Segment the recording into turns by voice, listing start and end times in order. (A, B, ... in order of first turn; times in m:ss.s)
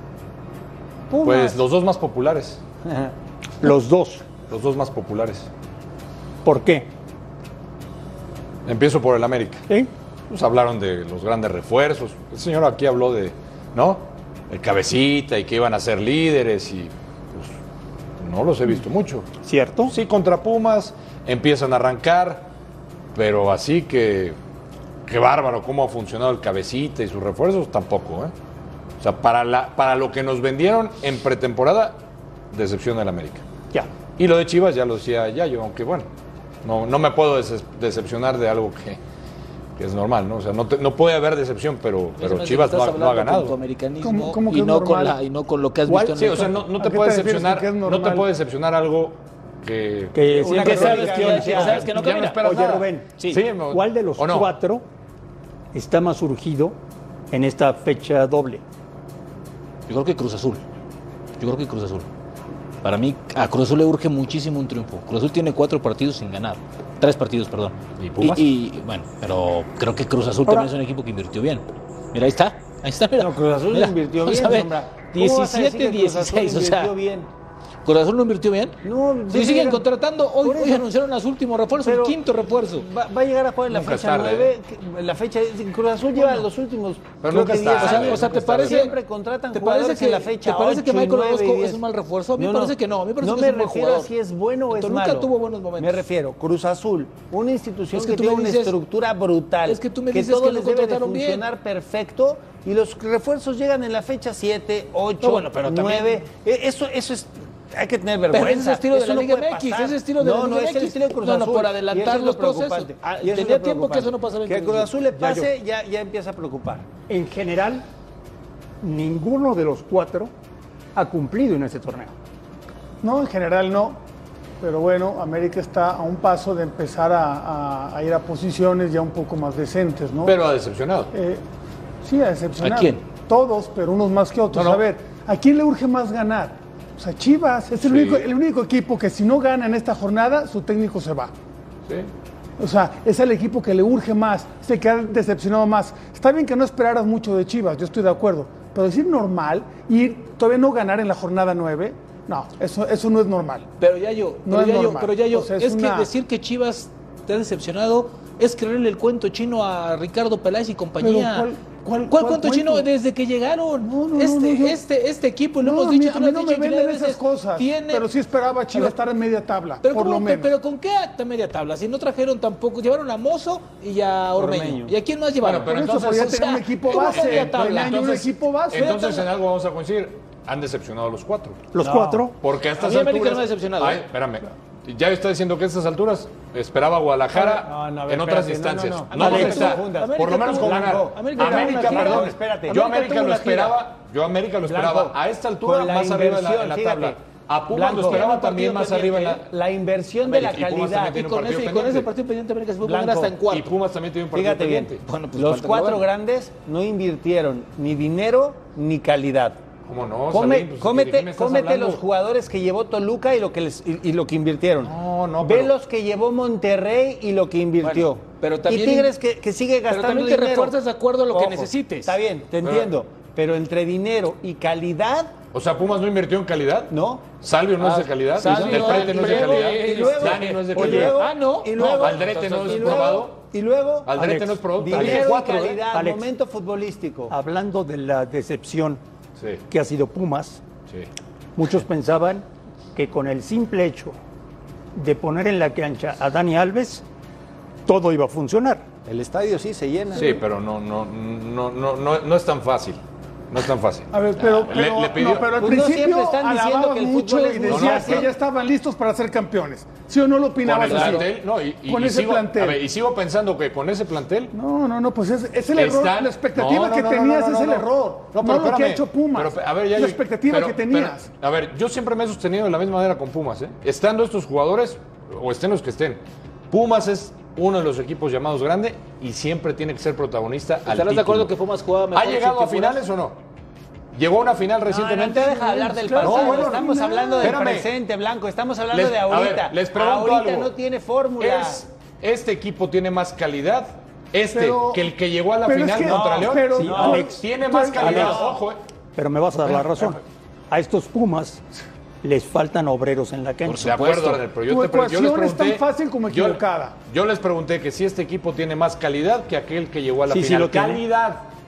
0:01.1-0:01.6 A
0:01.2-0:02.6 B
0:02.9-0:03.1 A
0:03.6-0:04.2 C
0:04.5-0:05.5 B
0:06.4-0:06.9 C
0:08.6-0:09.6 B
0:10.3-0:17.5 B
0:18.2-0:19.3 B
0:19.4-0:19.9 C
0:19.8-0:22.5 B
0:23.1-0:24.4 B
0:25.1-0:28.3 B
0:29.0-0:32.0 B
0:32.5-0:33.4 B
0:34.2-0:36.1 B
0:36.6-0:39.0 B
0:39.8-0:43.5 B
0:42.2-0:46.6 D
0:44.0-0:45.2 E
0:45.9-0:46.2 C
0:46.2-0:54.5 B
0:46.7-0:48.3 E
0:50.1-0:53.1 C
0:50.3-0:51.8 A
0:50.5-0:52.5 D
0:53.7-0:54.8 C
0:55.7-0:56.8 C
0:57.3-0:58.6 C
0:59.9-1:00.6 D
1:01.4-1:02.1 D
1:02.8-1:16.9 D
1:08.0-1:08.5 B
1:13.2-1:17.3 A
1:17.8-1:18.8 D
1:18.8-1:19.8 A
1:19.3-1:22.8 D
1:20.4-1:20.9 A
1:21.8-1:22.2 A
1:22.7-1:31.8 A
1:23.7-1:24.5 B
1:27.2-1:28.9 B
1:27.8-1:29.0 D
1:29.5-1:34.1 D
1:32.4-1:56.9 A
1:34.7-1:36.0 D
1:37.9-1:38.7 D
1:39.6-1:41.4 D
1:45.2-1:46.2 D
1:48.3-1:55.4 D
1:57.1-1:57.8 C
1:58.8-2:00.3 C
2:00.9-2:02.1 C
2:03.0-2:04.0 E
2:04.6-2:10.4 E
2:10.2-2:11.1 B
2:11.1-2:11.4 E
2:12.0-2:21.3 E
2:12.6-2:13.0 D
2:14.5-2:14.8 B
2:17.8-2:18.3 B
2:22.6-2:33.7 E
2:33.8-2:41.5 D
2:34.4-2:36.1 E
2:41.0-2:42.8 E
2:42.1-2:48.0 D
2:43.8-2:44.8 E
2:45.6-2:50.5 E
2:49.8-2:58.0 D
2:54.4-2:54.9 A
2:55.4-2:56.3 B
2:55.6-2:59.2 E
2:56.8-3:01.6 B
2:58.7-2:59.2 D
3:01.7-3:02.3 C
3:01.8-3:02.2 A
3:02.4-3:19.5 B
3:02.8-3:04.0 D
3:07.3-3:12.8 A
3:09.1-3:13.8 D
3:09.2-3:09.6 C
3:14.6-3:17.2 A
3:17.7-3:21.2 A
3:17.8-3:19.3 D
3:20.2-3:23.7 D
3:20.4-3:22.1 B
3:22.8-3:23.4 A
3:23.5-3:25.0 B
3:24.3-3:29.6 A
3:25.0-3:26.0 D
3:29.8-3:32.0 B
3:30.3-3:40.8 A
3:34.8-3:35.7 B
3:37.8-3:39.1 D
3:39.9-3:42.1 D
3:41.3-3:45.3 A
3:42.6-3:42.9 B
3:45.5-3:51.2 B
3:46.9-3:47.3 A
3:47.8-3:53.3 D
3:48.4-3:54.2 A
3:52.0-3:53.4 B
3:54.1-3:55.8 B
3:54.2-3:55.3 C
3:54.7-3:57.3 A
3:55.9-3:56.2 C
3:57.3-3:59.0 C
3:59.7-4:00.6 C
4:01.6-4:04.2 C
4:04.9-4:07.0 C
4:07.8-4:08.8 C
4:09.0-4:10.4 A
4:10.1-4:13.0 B
4:13.5-4:15.5 B
4:14.1-4:21.3 E
4:15.5-4:18.3 A
4:17.6-4:18.3 B
4:20.6-4:24.5 B
4:20.8-4:21.2 D
4:21.8-4:22.8 E
4:24.5-4:31.3 E
4:25.7-4:41.5 B
4:40.8-4:43.0 D
4:42.1-4:43.4 B
4:44.1-4:45.6 B
4:44.9-4:51.8 A
4:45.5-4:47.6 E
4:46.2-4:47.9 B
4:48.9-4:50.7 B
4:51.4-4:58.8 B
4:54.5-4:55.0 E
4:55.6-4:58.4 E
4:56.7-4:57.4 C
4:56.8-4:57.2 A
4:58.0-4:58.4 C
4:59.2-5:01.6 C
5:02.2-5:03.8 C
5:03.6-5:04.4 D
5:03.8-5:11.4 B
5:04.7-5:06.9 E
5:10.3-5:11.0 C